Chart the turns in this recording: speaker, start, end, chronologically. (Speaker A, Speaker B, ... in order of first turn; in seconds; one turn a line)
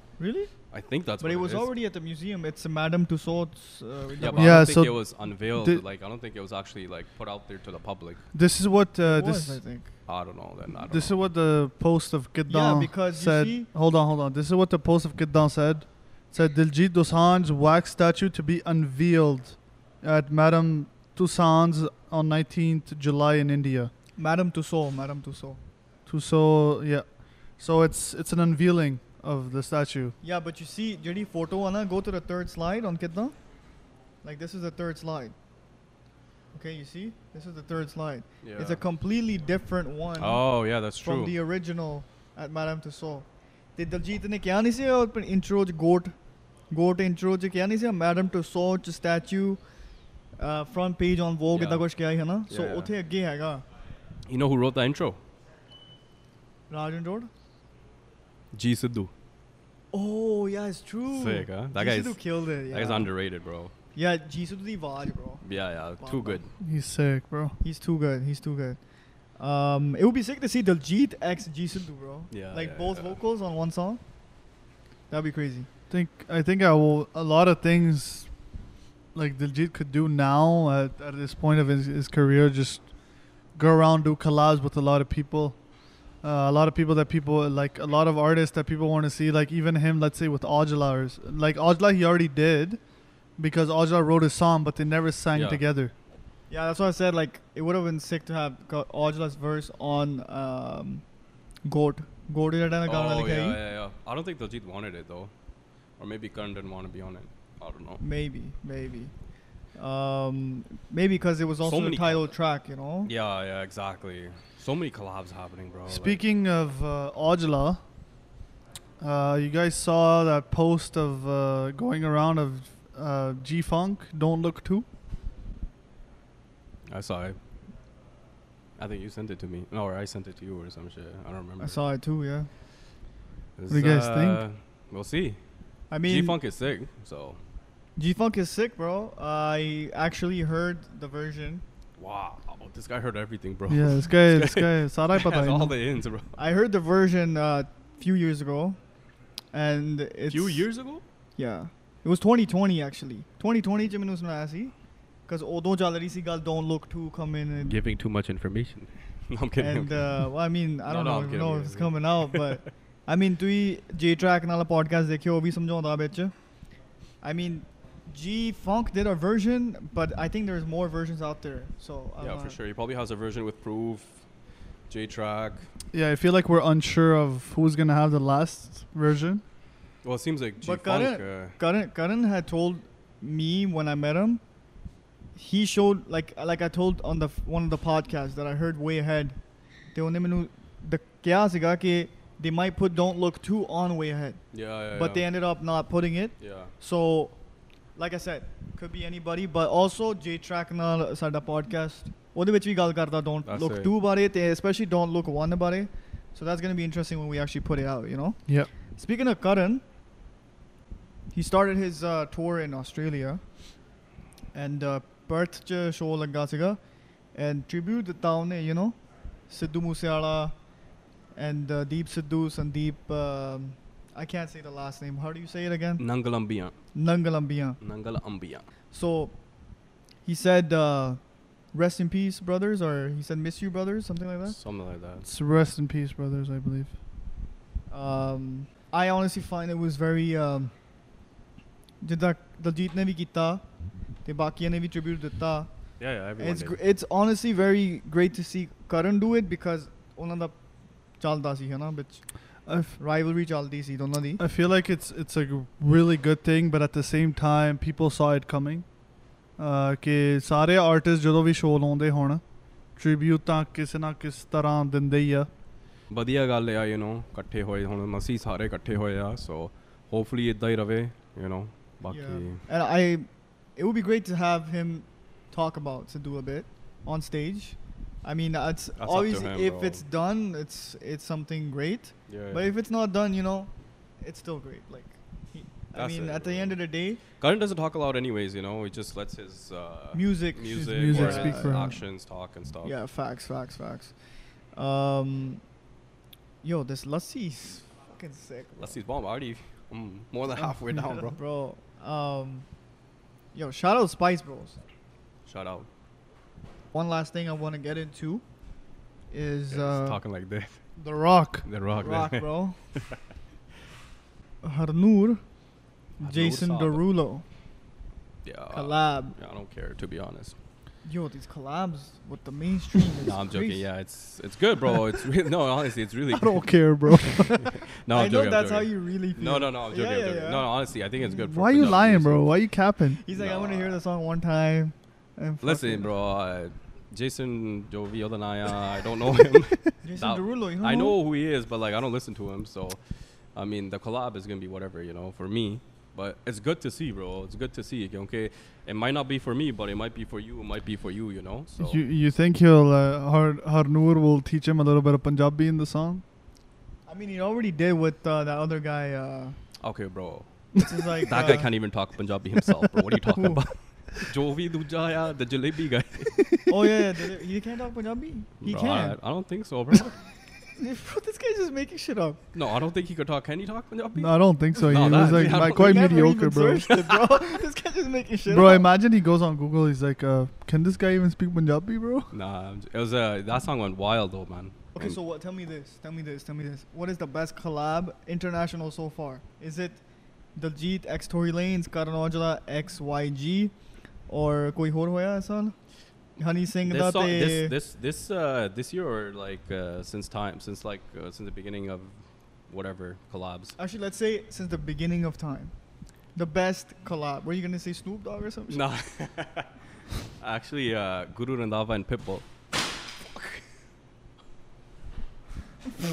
Speaker A: 0.2-0.6
Speaker B: 0.7-1.7
Speaker A: 1.2-4.7
Speaker B: 4.2-8.2
Speaker C: 4.3-5.8
Speaker C: 8.3-9.6
Speaker A: 9.0-9.9
Speaker B: 10.1-11.2
Speaker C: 10.8-23.9
Speaker A: 12.5-13.7
Speaker A: 24.2-25.6
Speaker C: 26.1-27.1
Speaker C: 27.6-30.1
Speaker A: 30.2-33.4
Speaker A: 34.2-35.4
Speaker A: 36.5-46.1
Speaker B: 38.4-38.8
Speaker B: 40.2-41.4
Speaker A: 46.7-49.6
Speaker A: 50.4-53.6
Speaker B: 51.5-51.9
Speaker B: 52.5-52.9
Speaker B: 54.3-55.2
Speaker A: 56.7-57.3
Speaker B: 58.5-59.1
Speaker A: 59.9-63.1
Speaker B: 61.1-63.7
Speaker A: 64.0-65.4
Speaker B: 65.4-66.5
Speaker A: 66.0-66.4
Speaker C: 66.6-67.6
Speaker A: 67.6-68.8
Speaker A: 69.4-74.0
Speaker B: 72.3-73.2
Speaker A: 75.1-75.7
Speaker C: 75.9-78.3
Speaker C: 79.1-82.9
Speaker C: 83.5-85.6
Speaker C: 86.2-92.8
Speaker C: 93.4-95.9
Speaker B: 95.3-95.6
Speaker A: 96.5-101.0
Speaker A: 101.7-103.6
Speaker B: 102.8-105.3
Speaker B: 106.0-108.0
Speaker A: 108.0-109.1
Speaker A: 109.8-113.1
Speaker B: 111.6-112.3
Speaker B: 113.0-116.2
Speaker C: 115.9-117.8
Speaker C: 119.0-124.9
Speaker B: 126.9-127.4
Speaker B: 128.8-131.8
Speaker A: 131.6-132.5
Speaker B: 133.6-135.4
Speaker C: 133.7-134.4
Speaker A: 135.9-136.4
Speaker B: 136.0-137.4
Speaker A: 138.0-141.6
Speaker B: 142.0-146.4
Speaker C: 143.7-145.8
Speaker A: 146.4-148.8
Speaker A: 149.5-150.7
Speaker B: 150.3-151.0
Speaker A: 151.4-154.7
Speaker A: 155.3-157.8
Speaker B: 157.7-160.2
Speaker A: 159.6-166.3
Speaker B: 160.9-162.6
Speaker A: 167.2-172.6
Speaker B: 172.2-174.2
Speaker B: 174.9-175.7
Speaker C: 175.9-179.4
Speaker B: 180.0-181.6
Speaker A: 180.6-184.4
Speaker A: 185.4-189.4
Speaker A: 189.9-194.4
Speaker B: 194.5-195.3
Speaker A: 194.9-197.3
Speaker B: 196.4-196.7
Speaker A: 198.0-209.8
Speaker B: 203.5-203.9
Speaker A: 211.3-213.4
Speaker A: 214.5-216.8
Speaker A: 217.3-220.6
Speaker A: 221.3-226.0
Speaker B: 226.0-226.8
Speaker A: 226.9-227.8
Speaker B: 227.8-228.7
Speaker A: 228.9-229.4
Speaker A: 230.2-231.2
Speaker A: 231.7-234.6
Speaker B: 234.5-235.3
Speaker C: 235.2-236.9
Speaker A: 237.9-240.7
Speaker A: 242.0-243.7
Speaker A: 244.2-245.7
Speaker B: 246.0-246.8
Speaker A: 246.4-250.6
Speaker A: 251.2-252.2
Speaker C: 252.7-253.0
Speaker A: 253.0-254.4
Speaker C: 254.4-258.9
Speaker C: 259.6-262.4
Speaker C: 263.0-265.5
Speaker B: 266.1-272.6
Speaker A: 272.1-287.2
Speaker B: 279.0-280.0
Speaker B: 282.3-282.7
Speaker B: 285.9-286.8
Speaker B: 287.4-292.9
Speaker A: 290.1-292.0
Speaker C: 290.7-291.9
Speaker A: 292.8-294.1
Speaker A: 294.8-295.6
Speaker A: 296.6-299.0
Speaker B: 298.8-301.4
Speaker A: 301.1-302.7
Speaker A: 303.5-304.8
Speaker B: 305.5-305.9
Speaker A: 306.9-308.4
Speaker A: 309.3-310.2
Speaker B: 309.7-310.8
Speaker C: 311.0-311.6
Speaker B: 311.6-313.1
Speaker A: 312.0-312.8
Speaker A: 314.6-315.4
Speaker B: 316.2-317.0
Speaker A: 316.2-317.4
Speaker B: 318.4-320.6
Speaker A: 318.7-319.4
Speaker A: 321.0-323.8
Speaker B: 323.2-332.5
Speaker C: 326.3-327.8
Speaker A: 328.1-330.7
Speaker C: 331.3-333.2
Speaker A: 333.2-336.1
Speaker B: 333.3-334.0
Speaker B: 335.6-343.0
Speaker A: 340.0-341.2
Speaker B: 343.6-352.0
Speaker C: 351.8-356.2
Speaker A: 357.1-359.6
Speaker B: 359.8-360.5
Speaker A: 360.8-361.7
Speaker B: 361.2-366.5
Speaker A: 363.3-363.7
Speaker A: 366.7-369.2
Speaker B: 368.6-370.2
Speaker A: 370.8-372.4
Speaker B: 372.5-376.2
Speaker C: 374.1-376.9
Speaker A: 374.9-378.9
Speaker B: 376.9-377.5
Speaker C: 378.5-382.3
Speaker B: 382.3-385.2
Speaker A: 384.9-390.0
Speaker A: 390.6-393.7
Speaker A: 394.3-395.8
Speaker A: 396.4-397.8
Speaker B: 396.9-402.2
Speaker B: 402.7-403.8
Speaker A: 403.8-405.7
Speaker A: 406.4-408.8
Speaker B: 408.7-409.7
Speaker B: 410.4-412.5